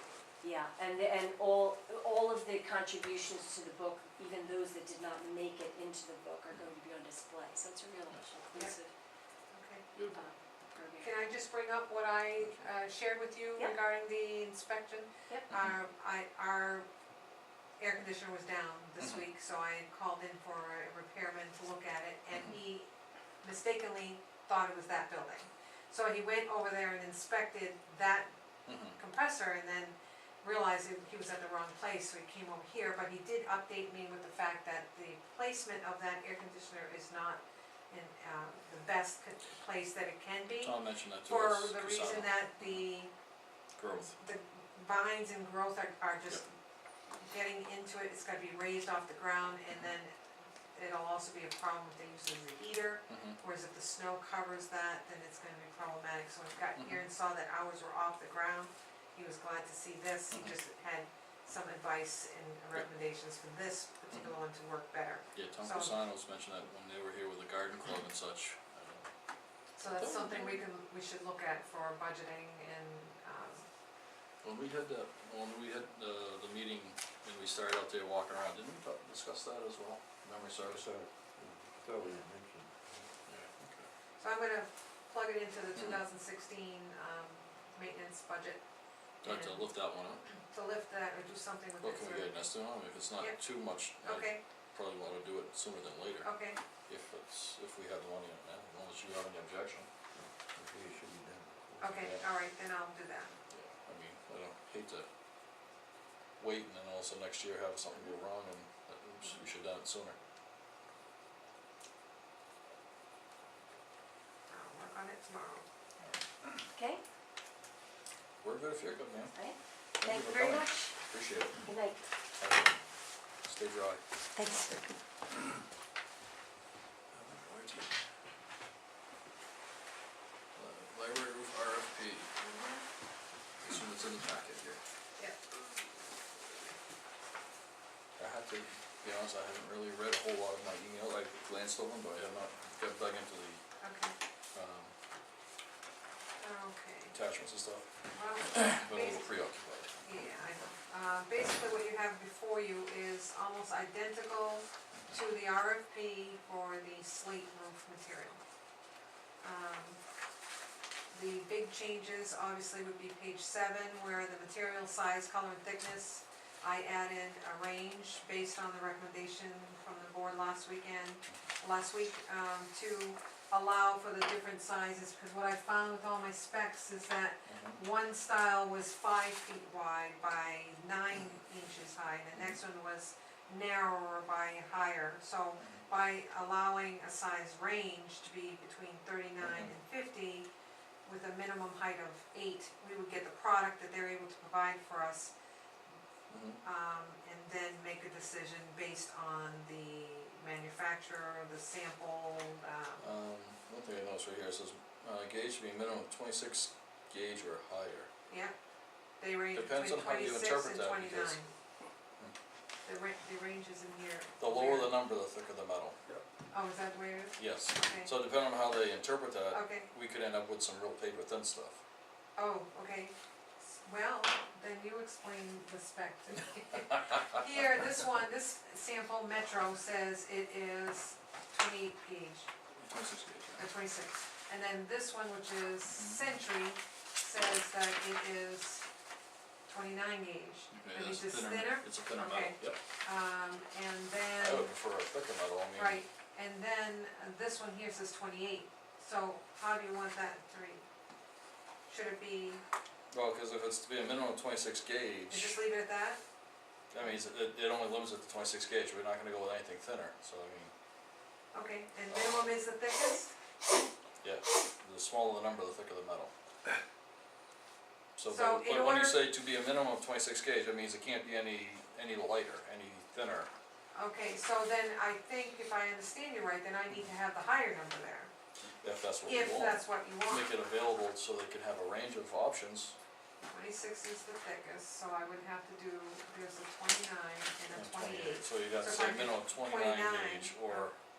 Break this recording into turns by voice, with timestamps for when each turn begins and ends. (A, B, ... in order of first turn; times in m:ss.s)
0:00.4-0:08.9 A
0:09.5-0:09.9 B
0:09.9-0:10.2 C
0:10.1-0:11.1 A
0:11.0-0:16.9 B
0:12.4-0:12.7 C
0:15.5-0:15.8 C
0:17.8-0:22.9 B
0:19.0-0:19.2 C
0:23.4-0:28.3 B
0:28.7-0:29.0 C
0:29.0-0:40.8 B
0:40.6-0:42.9 C
0:41.3-0:43.1 B
0:43.8-0:44.2 C
0:44.1-0:46.4 B
0:47.2-0:50.1 B
0:50.8-1:06.0 B
0:53.1-0:53.4 C
1:00.3-1:00.6 C
1:04.1-1:04.4 C
1:05.4-1:09.1 C
1:09.8-1:13.7 B
1:09.9-1:10.6 C
1:14.4-1:20.8 C
1:20.6-1:23.1 D
1:23.3-1:23.9 C
1:24.2-1:28.6 B
1:25.8-1:26.0 C
1:29.2-1:29.7 B
1:29.2-1:30.2 C
1:30.4-1:32.6 B
1:31.8-1:36.3 C
1:34.0-1:34.4 B
1:36.2-1:36.6 B
1:36.9-1:39.9 C
1:40.2-1:42.0 D
1:41.8-1:43.4 B
1:41.9-1:42.2 C
1:43.5-1:45.1 C
1:46.4-1:50.2 C
1:54.5-1:55.6 B
1:56.7-1:57.0 A
1:58.4-1:59.4 C
1:59.3-2:01.0 A
2:00.0-2:01.7 C
2:01.6-2:02.1 A
2:02.4-2:02.8 C
2:03.4-2:04.0 C
2:04.4-2:04.8 A
2:07.1-2:07.9 C
2:10.6-2:12.3 C
2:12.4-2:12.8 B
2:13.6-2:14.8 C
2:18.2-2:23.6 C
2:23.8-2:24.2 B
2:24.5-2:24.9 C
2:26.4-2:27.1 B
2:27.1-2:27.9 C
2:28.1-2:29.4 B
2:28.5-2:30.3 C
2:30.0-2:38.4 B
2:39.4-2:40.0 B
2:41.1-3:10.5 B
2:57.5-2:57.8 C
3:05.6-3:05.9 C
3:09.4-3:09.7 C
3:11.0-3:15.3 B
3:16.3-3:16.6 C
3:16.6-3:23.1 B
3:23.0-3:28.1 C
3:28.3-3:28.5 B
3:29.2-3:31.5 B
3:29.5-3:31.4 C
3:32.8-3:35.0 B
3:34.4-3:36.0 C
3:36.5-3:38.1 B
3:37.4-3:41.8 C
3:39.5-3:39.9 B
3:42.4-3:52.5 B
3:52.8-3:53.7 C
3:53.6-3:58.8 B
3:56.0-3:56.4 C
3:59.7-4:04.7 B
4:00.7-4:02.8 C
4:04.4-4:06.0 C
4:05.7-4:10.8 B
4:11.9-4:12.6 B
4:13.1-4:15.6 C
4:15.3-4:16.2 B
4:16.9-4:20.7 C
4:21.5-4:23.3 B
4:22.1-4:22.5 C
4:24.2-4:26.3 C
4:28.2-4:33.5 C
4:28.3-4:29.2 B
4:33.9-4:38.3 B
4:38.8-4:43.0 C
4:39.2-4:40.5 B
4:43.5-4:50.9 B
4:47.7-4:51.0 C